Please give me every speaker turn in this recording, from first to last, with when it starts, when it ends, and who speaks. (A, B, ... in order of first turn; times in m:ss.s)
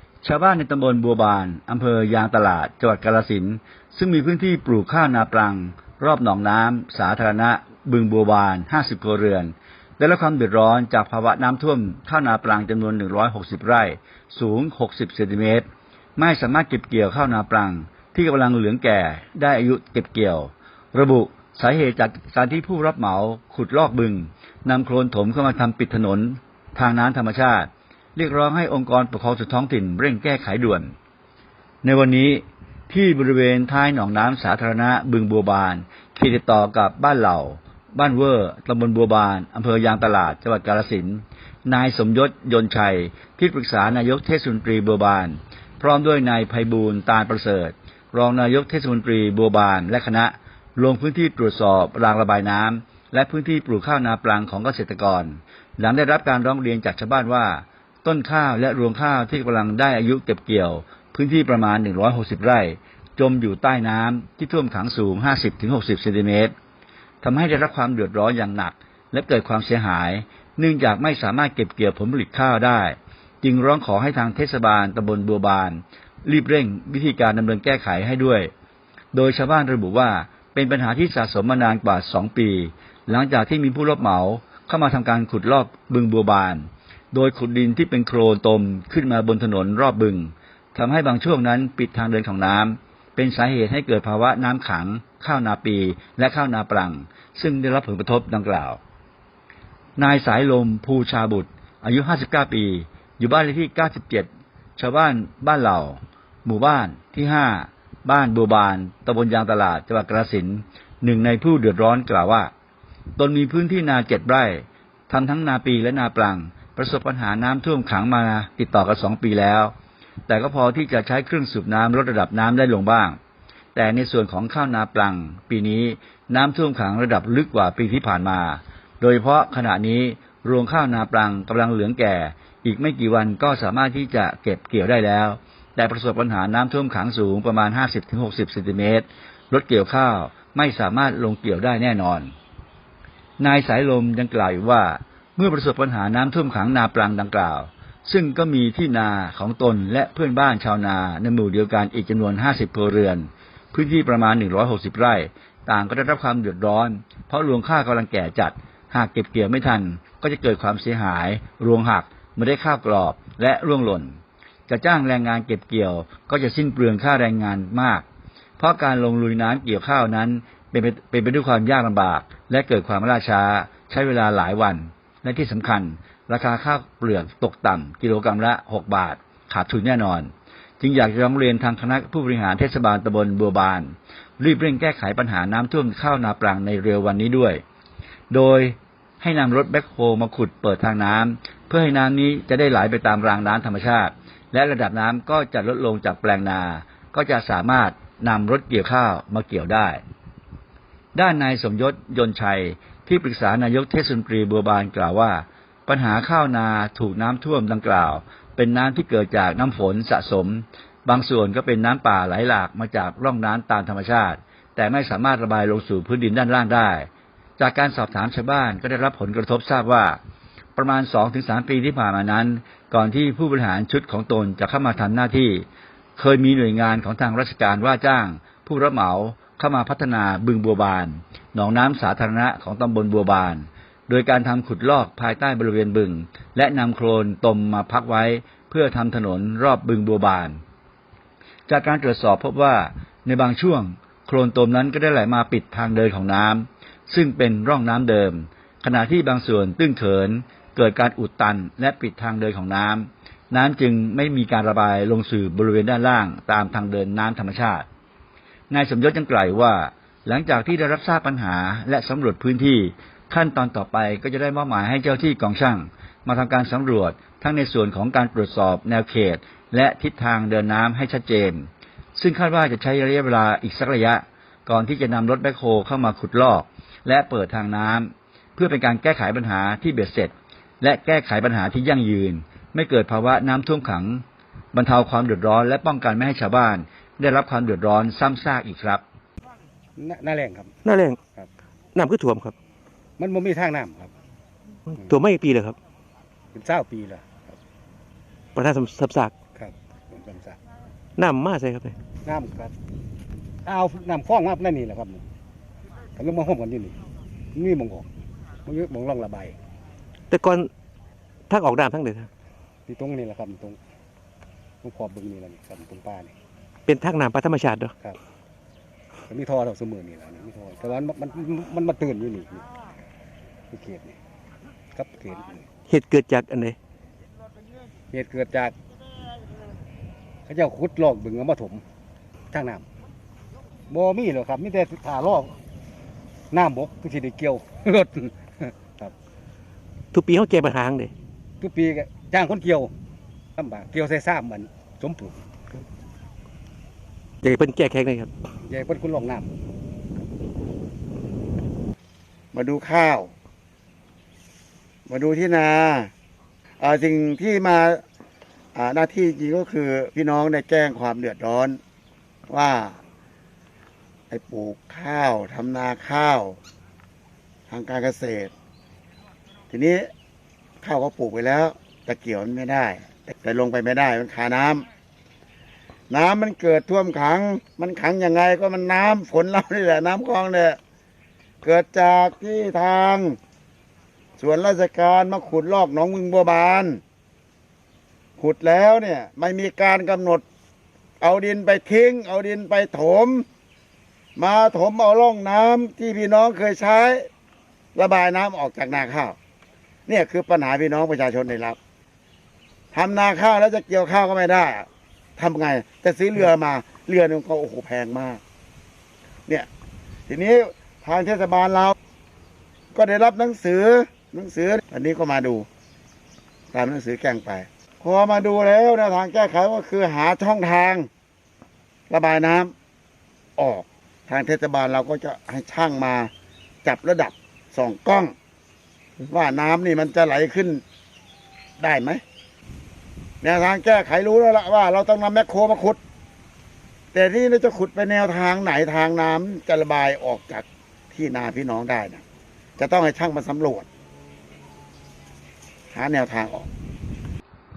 0:00.2-0:15.7 A
0:16.2-0:30.9 A
0:31.8-1:06.5 A
1:07.2-1:18.5 A
1:19.1-1:38.8 A
1:40.0-1:52.5 A
1:53.2-1:59.7 A
2:00.3-2:03.2 A
2:03.8-2:22.3 A
2:23.4-2:44.2 A
2:44.7-2:48.0 A
2:48.6-3:07.6 A
3:08.3-3:20.0 A
3:21.2-3:40.2 A
3:40.8-3:45.6 A
3:46.2-4:00.6 A
4:01.7-4:17.9 A
4:18.7-4:49.0 A
4:50.0-4:50.7 B
4:50.8-4:51.2 C
4:52.0-4:52.6 C
4:53.2-4:54.1 B
4:54.9-4:55.8 C
4:56.5-4:57.6 B
4:58.6-4:59.4 C
4:59.6-5:00.6 B
5:01.2-5:02.0 C
5:02.2-5:02.7 B
5:03.6-5:05.2 B
5:06.2-5:07.0 B
5:07.6-5:08.1 B
5:08.7-5:09.6 B
5:10.3-5:10.7 C
5:11.5-5:12.3 C
5:12.9-5:13.8 B
5:14.8-5:16.3 B
5:16.9-5:17.9 C
5:19.3-5:22.6 B
5:23.7-5:24.2 B
5:24.9-5:25.6 B
5:25.9-5:26.8 C
5:28.1-5:28.8 B
5:30.5-5:31.8 B
5:32.5-5:32.9 B
5:33.9-5:35.6 B
5:36.5-5:39.1 B
5:40.1-5:41.1 C
5:41.6-5:42.9 B
5:43.6-5:45.4 B
5:47.4-5:48.3 C
5:48.6-5:49.5 B
5:52.5-5:53.3 D
5:55.1-5:56.1 D
5:56.8-5:58.0 D
5:58.8-6:01.8 D
6:02.5-6:03.0 D
6:04.3-6:06.6 D
6:07.7-6:08.5 D
6:09.7-6:10.1 D
6:10.8-6:14.9 D
6:16.1-6:20.8 D
6:21.6-6:23.4 D
6:24.4-6:27.0 D
6:28.4-6:30.4 D
6:31.2-6:33.4 D
6:34.4-6:37.3 D
6:38.0-6:39.4 D
6:40.1-6:41.8 D
6:42.9-6:48.4 D
6:50.3-6:52.0 D
6:52.9-6:55.7 D
6:56.7-7:01.1 D
7:02.1-7:02.7 D
7:03.6-7:06.3 D
7:06.8-7:08.3 D
7:09.2-7:10.8 D
7:11.8-7:12.2 D
7:13.4-7:16.0 D
7:17.1-7:22.2 D
7:22.8-7:23.9 D
7:25.9-7:26.7 D